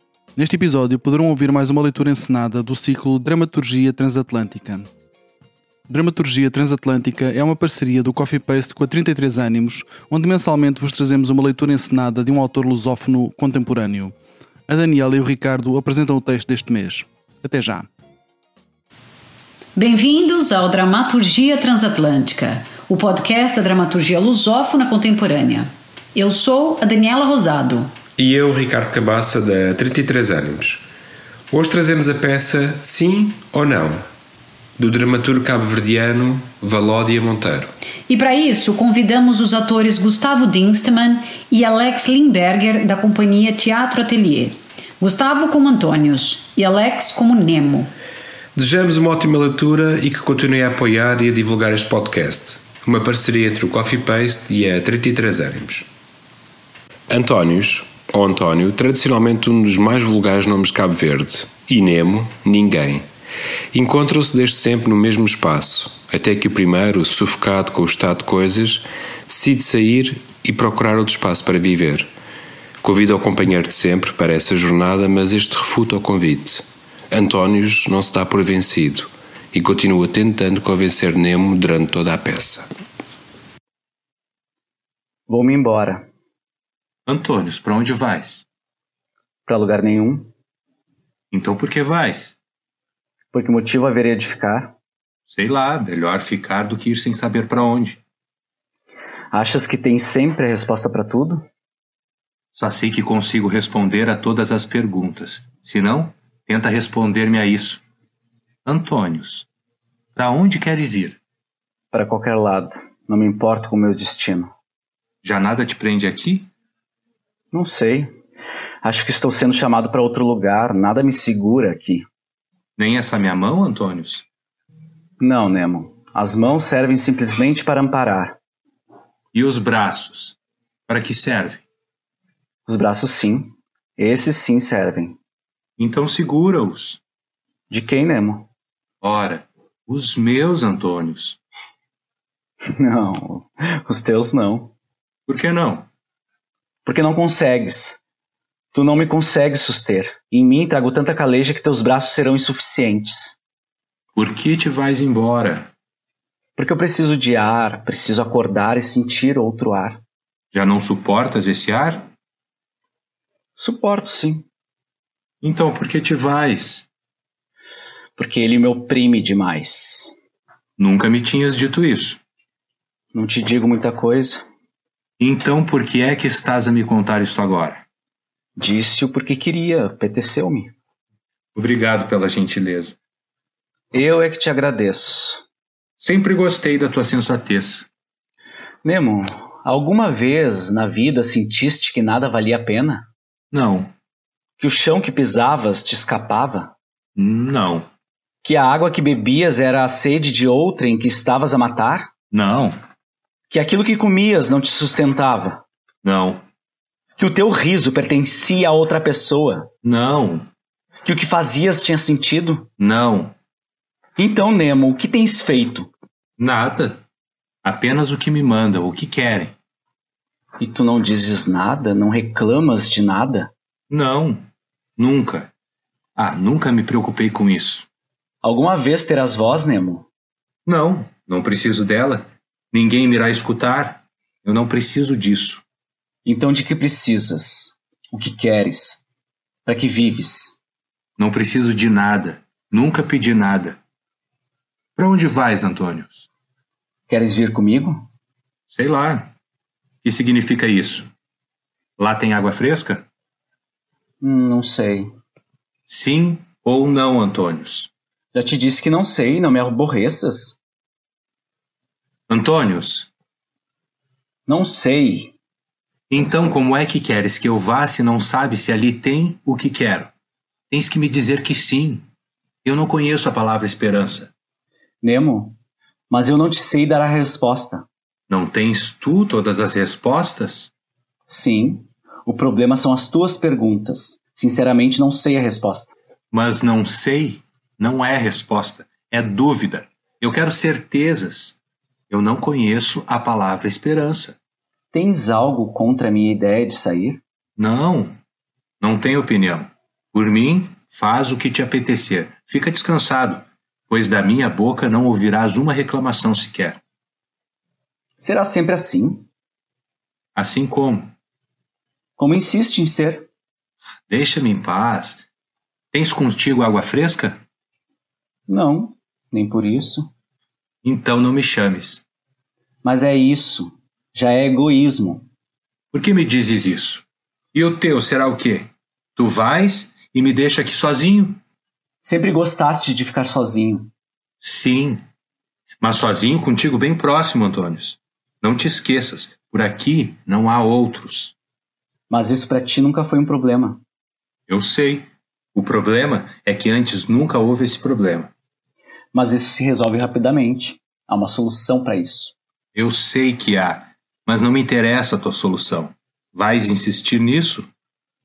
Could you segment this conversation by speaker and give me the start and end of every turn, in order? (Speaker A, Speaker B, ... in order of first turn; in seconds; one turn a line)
Speaker A: 0.4-4.9
Speaker A: 5.9-14.1
Speaker A: 14.7-17.9
Speaker B: 19.8-27.9
Speaker C: 28.2-30.8
Speaker C: 31.5-34.1
Speaker C: 34.8-37.7
Speaker B: 38.1-47.9
Speaker C: 48.5-55.9
Speaker C: 57.1-63.0
Speaker C: 63.7-72.1
Speaker C: 72.8-82.7
Speaker D: 85.3-86.0
Speaker E: 87.1-88.5
Speaker D: 89.5-90.3
Speaker E: 91.3-92.4
Speaker D: 93.3-94.7
Speaker E: 95.3-98.0
Speaker D: 99.3-101.5
Speaker E: 102.5-107.8
Speaker E: 108.7-109.5
Speaker E: 110.2-111.2
Speaker D: 111.9-114.5
Speaker E: 115.2-116.5
Speaker D: 117.5-118.1
Speaker D: 118.8-122.1
Speaker E: 122.8-124.2
Speaker D: 125.2-128.4
Speaker E: 129.3-131.6
Speaker D: 132.7-135.2
Speaker E: 135.8-137.0
Speaker D: 137.7-138.5
Speaker E: 139.0-141.4
Speaker D: 142.7-144.7
Speaker E: 145.3-145.9
Speaker D: 146.8-148.0
Speaker D: 148.7-153.4
Speaker E: 154.2-155.7
Speaker D: 156.6-160.0
Speaker E: 160.5-162.1
Speaker D: 163.6-164.4
Speaker E: 165.4-166.9
Speaker D: 168.2-170.1
Speaker E: 170.8-172.2
Speaker D: 173.1-174.4
Speaker E: 175.2-177.8
Speaker D: 178.6-180.7
Speaker E: 181.6-183.0
Speaker D: 183.9-185.4
Speaker E: 186.0-187.9
Speaker D: 188.8-193.1
Speaker E: 193.5-193.9
Speaker D: 194.6-196.7
Speaker E: 197.2-197.9
Speaker D: 198.4-202.1
Speaker E: 202.3-202.8
Speaker D: 203.5-205.6
Speaker E: 206.0-206.4
Speaker D: 207.2-209.7
Speaker E: 209.8-210.5
Speaker D: 211.1-212.7
Speaker E: 212.8-213.3
Speaker D: 214.2-215.9
Speaker E: 216.4-217.0
Speaker E: 217.6-219.5
Speaker D: 220.6-223.5
Speaker E: 223.9-224.4
Speaker E: 225.0-225.5
Speaker E: 226.2-227.9
Speaker D: 228.4-230.1
Speaker E: 230.7-235.6
Speaker D: 236.2-239.0
Speaker D: 239.7-240.6
Speaker E: 241.2-243.8
Speaker E: 245.0-246.3
Speaker D: 247.1-248.1
Speaker E: 248.7-249.3
Speaker E: 250.0-251.1
Speaker E: 252.0-253.1
Speaker D: 254.2-255.1
Speaker E: 255.9-257.9
Speaker D: 258.3-260.6
Speaker E: 262.3-263.1
Speaker D: 264.5-265.3
Speaker E: 266.1-270.1
Speaker E: 270.7-272.1
Speaker E: 272.6-274.3
Speaker D: 275.0-275.6
Speaker D: 276.1-277.9
Speaker E: 278.3-280.7
Speaker D: 281.3-285.9
Speaker E: 286.3-291.6
Speaker E: 292.1-294.4
Speaker D: 294.9-297.2
Speaker E: 297.6-298.2
Speaker E: 298.8-306.8
Speaker D: 308.2-309.3
Speaker E: 310.4-311.1
Speaker D: 312.2-313.3
Speaker E: 314.1-315.2
Speaker E: 315.9-317.4
Speaker D: 318.5-320.1
Speaker E: 320.8-322.0
Speaker D: 322.8-325.3
Speaker E: 325.9-331.4
Speaker D: 332.0-333.9
Speaker E: 334.4-335.0
Speaker E: 335.8-341.3
Speaker D: 342.1-343.8
Speaker E: 344.5-348.3
Speaker D: 349.1-352.4
Speaker E: 352.8-357.7